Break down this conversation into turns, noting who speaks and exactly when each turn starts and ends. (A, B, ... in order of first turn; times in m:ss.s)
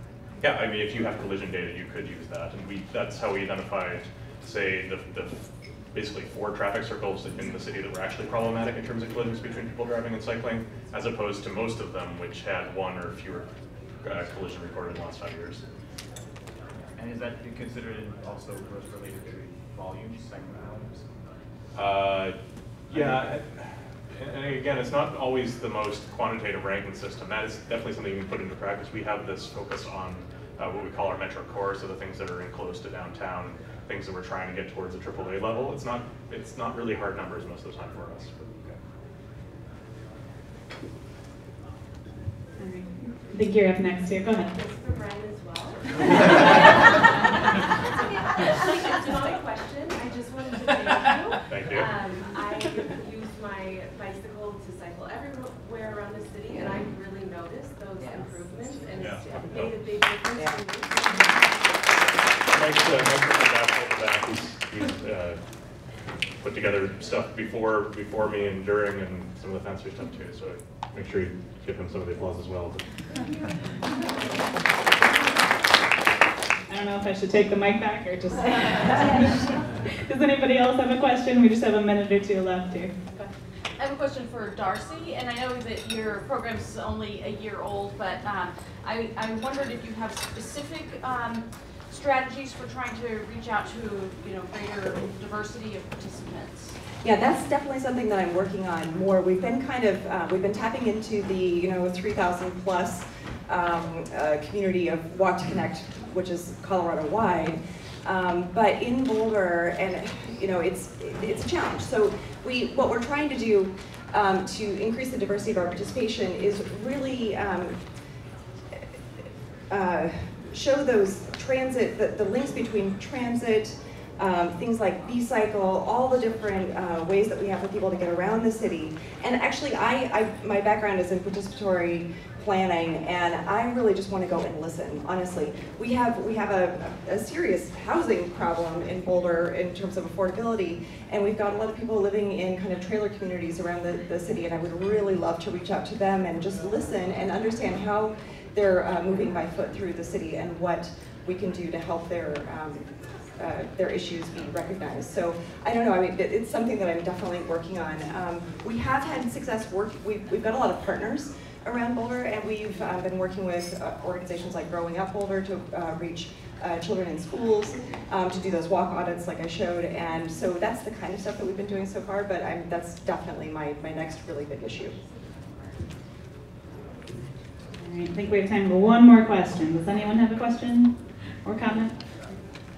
0:00.4-0:05.4 A
0:05.9-0:13.5 A
0:14.0-0:15.6 A
0:17.0-0:21.1 B
0:21.8-0:22.4 A
0:22.9-0:38.4 A
0:42.6-0:44.5 C
0:44.5-0:47.1 D
0:47.9-1:01.9 D
0:51.5-0:51.9 A
0:59.0-0:59.8 A
1:02.5-1:05.4 A
1:06.4-1:12.8 A
1:16.7-1:22.9 C
1:23.8-1:36.8 E
1:37.0-1:57.8 F
1:59.7-2:55.0 F
2:57.8-3:00.9 C
3:01.4-3:02.0 C